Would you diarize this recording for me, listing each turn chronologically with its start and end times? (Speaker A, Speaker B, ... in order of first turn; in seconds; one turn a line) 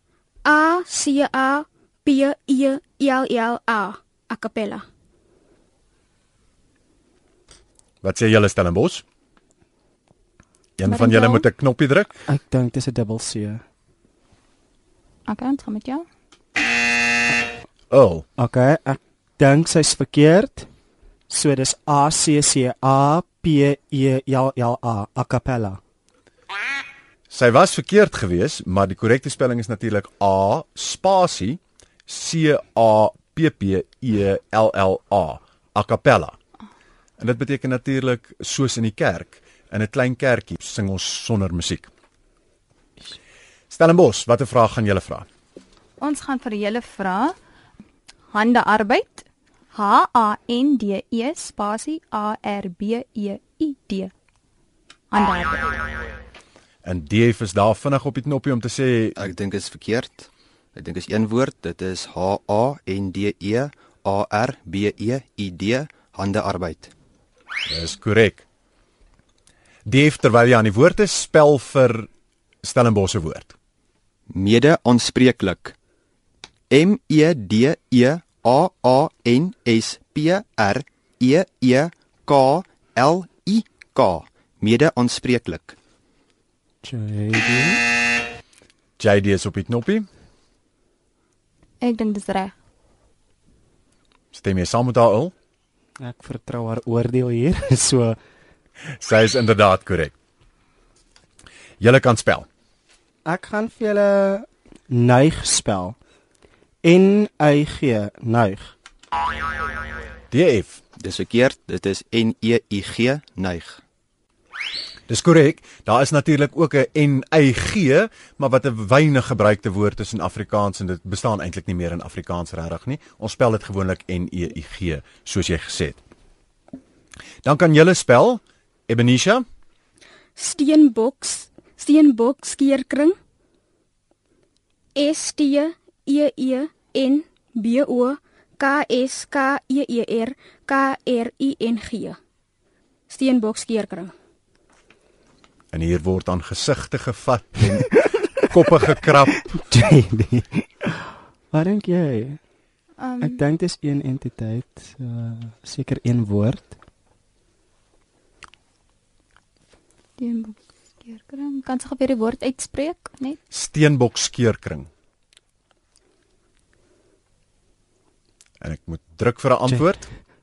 Speaker A: 0.5-4.8
Speaker B: 8.0-9.0
Speaker B: 10.8-12.1
Speaker C: 10.8-11.4
Speaker D: 12.3-13.6
Speaker C: 15.3-16.1
Speaker B: 17.9-18.2
Speaker D: 18.4-20.7
Speaker D: 21.3-25.8
Speaker B: 27.3-36.4
Speaker B: 37.2-41.9
Speaker B: 43.7-45.3
Speaker C: 46.0-47.4
Speaker C: 48.3-54.1
Speaker C: 55.1-55.7
Speaker B: 56.8-59.2
Speaker E: 59.2-66.9
Speaker B: 67.7-68.5
Speaker B: 69.9-72.1
Speaker B: 72.6-73.5
Speaker E: 74.3-75.8
Speaker E: 76.7-85.8
Speaker D: 86.8-87.8
Speaker B: 89.0-90.1
Speaker C: 91.8-92.5
Speaker B: 94.3-95.3
Speaker D: 96.0-98.2
Speaker B: 99.0-100.1
Speaker B: 101.8-102.5
Speaker D: 103.2-106.0
Speaker D: 106.8-108.7
Speaker B: 110.3-110.8
Speaker E: 111.0-113.8
Speaker B: 115.1-126.0
Speaker B: 127.4-129.4
Speaker A: 130.4-133.2
Speaker A: 134.9-142.2
Speaker A: 143.1-144.1
Speaker B: 145.7-149.4
Speaker D: 149.5-152.4
Speaker C: 153.0-153.4
Speaker D: 153.2-156.7
Speaker C: 160.2-163.4
Speaker B: 163.5-164.9
Speaker B: 168.6-170.1